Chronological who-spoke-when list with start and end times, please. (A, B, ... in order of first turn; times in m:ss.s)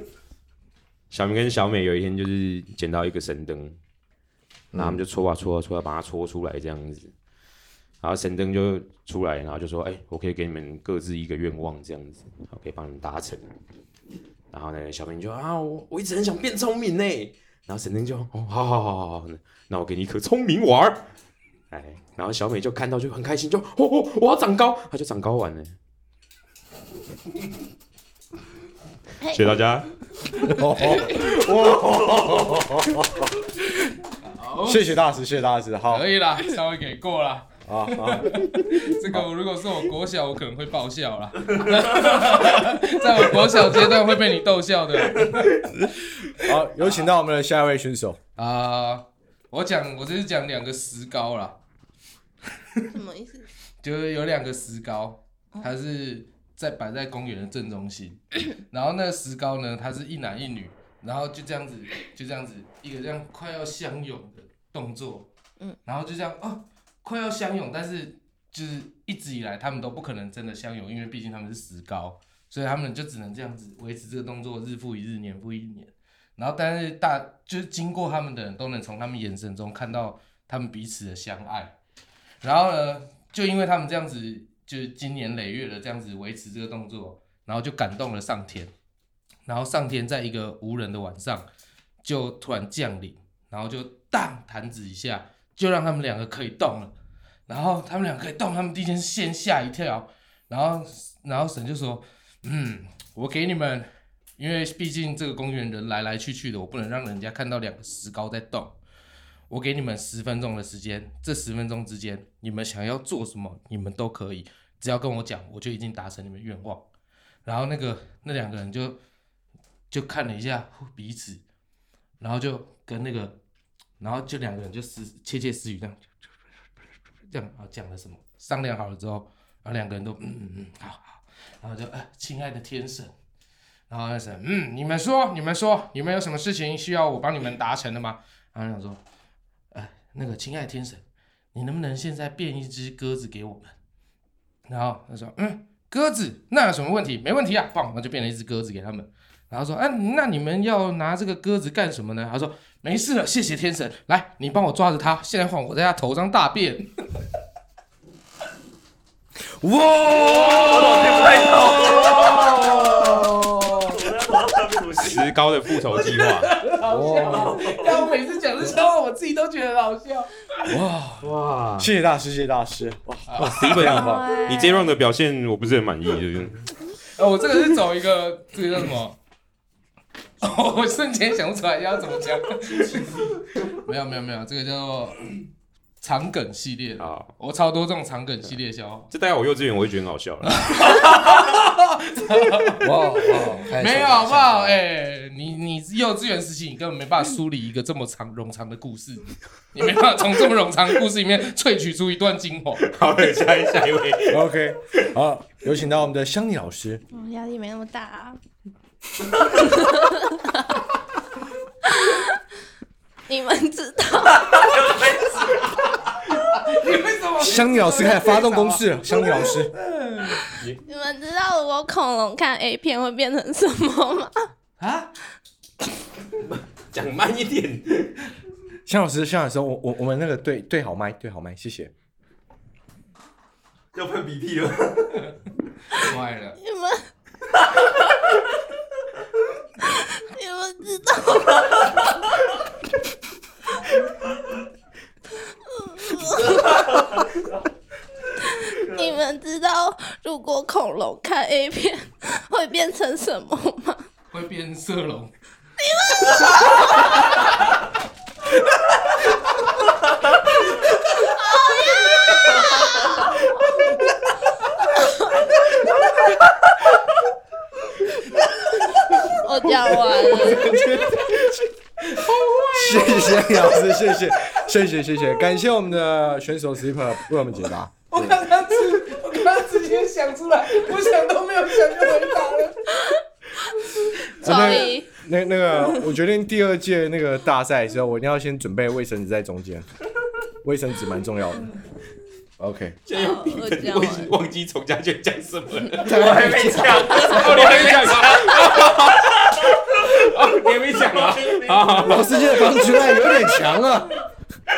0:01.1-0:03.8 A
0:04.7-0:05.0 B
0:04.8-0:07.1 A
0:08.0-0:13.5 A
0:14.5-0:21.0 A
0:21.7-0:25.7 A
0:29.2-0:29.6 C
0:29.3-0:29.9 A
0:30.4-0:34.0 B
0:34.2-0:35.0 D
0:34.6-0:36.1 B
0:35.9-0:45.7 D
0:37.6-0:39.3 B
0:41.5-0:42.5 E
0:46.4-0:48.2 B
0:48.4-0:51.6 D
0:52.9-0:53.5 C
0:53.8-1:05.3 D
1:05.8-1:21.8 D
1:22.4-1:28.7 D
1:29.4-1:31.4 D
1:32.0-1:36.9 D
1:37.5-1:48.8 D
1:49.5-1:56.8 D
1:57.4-1:59.0 D
1:59.9-2:01.4 D
2:02.2-2:03.4 D
2:04.0-2:06.1 D
2:07.3-2:13.1 D
2:13.9-2:19.0 D
2:19.7-2:21.0 D
2:21.5-2:23.7 D
2:24.7-2:36.8 D
2:39.6-2:44.0 B
2:39.9-2:43.3 D
2:40.5-2:42.9 E
2:43.9-2:45.2 E
2:45.0-2:46.5 A
2:46.0-2:50.3 D
2:46.8-2:47.7 B
2:47.2-2:47.9 E
2:50.7-2:54.3 B
2:51.2-2:51.9 A
2:53.3-2:54.0 D
2:53.4-2:56.7 A
2:53.8-2:54.9 C
2:57.1-2:59.2 D
3:00.4-3:05.4 D
3:06.0-3:09.1 D
3:07.0-3:07.3 A
3:09.1-3:11.0 A
3:10.4-3:12.9 D
3:12.8-3:14.8 B
3:13.7-3:22.8 D
3:22.8-3:25.0 A
3:24.3-3:27.0 B
3:27.1-3:28.4 C
3:29.5-3:30.8 C
3:31.8-3:32.4 C
3:33.3-3:35.0 C
3:34.5-3:35.7 E
3:36.2-3:40.4 D
3:37.4-3:39.7 B
3:40.8-3:44.5 C
3:44.8-3:45.1 D
3:46.4-3:48.2 A
3:48.8-3:51.9 B
3:53.9-3:55.3 E
3:55.9-3:56.6 D
3:56.6-3:57.1 C
3:57.6-3:57.8 E
3:59.8-4:01.9 C
4:05.5-4:07.1 C
4:06.4-4:07.6 E
4:08.4-4:14.0 C
4:08.8-4:09.1 E
4:14.3-4:15.3 D
4:15.8-4:17.4 C
4:17.2-4:17.7 D
4:19.1-4:19.5 D
4:21.2-4:23.5 C
4:29.2-4:31.1 C
4:30.1-4:31.6 B
4:30.3-4:30.6 A
4:32.0-4:34.2 D
4:32.7-4:38.5 B
4:38.1-4:42.9 D
4:44.4-4:45.1 C
4:44.4-4:49.8 B
4:50.6-4:51.7 B
4:52.6-4:53.0 B
4:53.1-5:03.5 A
4:53.1-4:54.3 C
4:56.0-4:57.9 B
4:56.2-5:03.2 E
4:58.3-4:58.6 C
5:02.0-5:04.2 B